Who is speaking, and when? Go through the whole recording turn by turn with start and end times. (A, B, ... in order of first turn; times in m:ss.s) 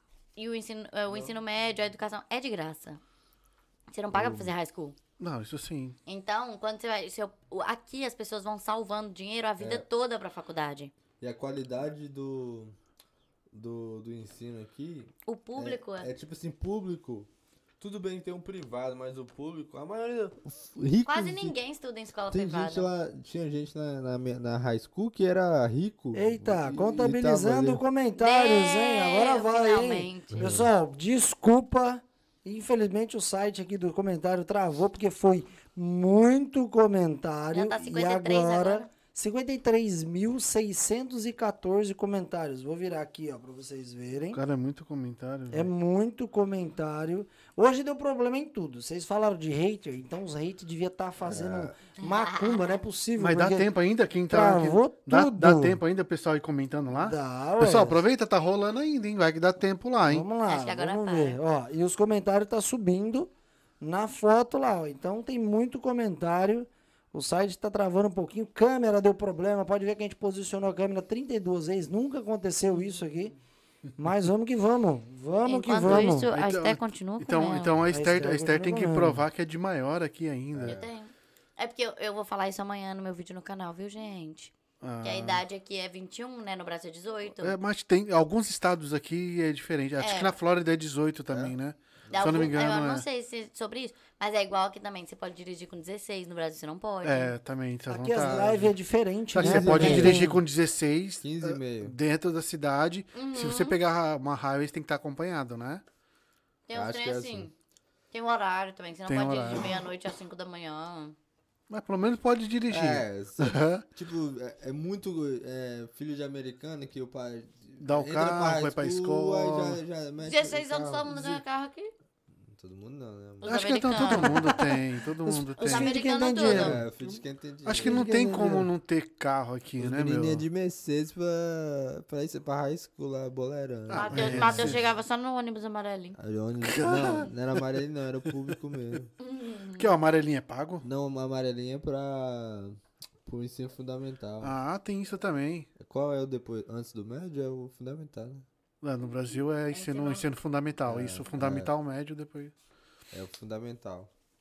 0:00.4-0:03.0 A
0:03.9-0:05.0 A
0:04.1-0:04.5 B
0:05.2-0:06.0 C
0:06.0-0:10.9 A
0:09.6-0:09.8 B
0:11.2-0:12.7 B
0:13.5-0:17.3 B
0:15.2-0:16.1 A
0:17.8-0:21.6 B
0:21.0-0:22.9 A
0:22.3-0:27.8 B
0:26.1-0:44.4 D
0:28.2-0:30.5 A
0:30.3-0:30.7 B
0:37.5-0:38.9 A
0:44.3-0:45.7 C
0:45.5-0:53.7 D
0:51.2-0:51.8 B
0:52.0-0:52.7 A
0:53.2-1:00.2 C
0:54.3-0:55.8 D
0:57.0-0:58.0 D
1:00.0-1:13.3 D
1:00.4-1:01.4 A
1:14.0-1:16.3 D
1:15.4-1:17.8 A
1:15.8-1:20.8 C
1:17.9-1:19.2 D
1:20.5-1:20.9 B
1:20.6-1:27.6 A
1:24.8-1:25.4 C
1:27.4-1:33.0 C
1:30.0-1:30.3 A
1:31.3-1:31.5 B
1:32.0-1:32.6 B
1:32.1-1:37.3 A
1:37.0-1:38.7 C
1:37.9-1:40.4 D
1:39.3-1:45.8 C
1:39.4-1:40.4 B
1:41.2-1:42.0 B
1:43.1-1:43.8 A
1:46.7-1:47.5 A
1:46.7-1:47.5 B
1:48.1-1:51.1 A
1:49.1-1:49.8 C
1:51.7-1:53.8 C
1:52.7-2:01.4 B
1:57.8-1:59.8 C
2:00.2-2:01.9 A
2:02.4-2:04.1 B
2:03.4-2:04.4 A
2:03.4-2:05.9 C
2:04.3-2:06.8 D
2:05.6-2:06.8 A
2:06.4-2:08.1 B
2:07.0-2:10.4 C
2:07.8-2:08.7 D
2:09.8-2:14.9 B
2:13.9-2:14.8 C
2:13.9-2:16.2 A
2:16.2-2:19.1 B
2:16.7-2:17.6 C
2:18.3-2:18.9 C
2:19.2-2:19.9 A
2:19.8-2:20.8 C
2:20.8-2:24.5 B
2:24.4-2:25.7 C
2:25.8-2:28.4 B
2:28.8-2:32.5 C
2:29.7-2:30.2 A
2:30.9-2:31.7 B
2:33.1-2:34.1 B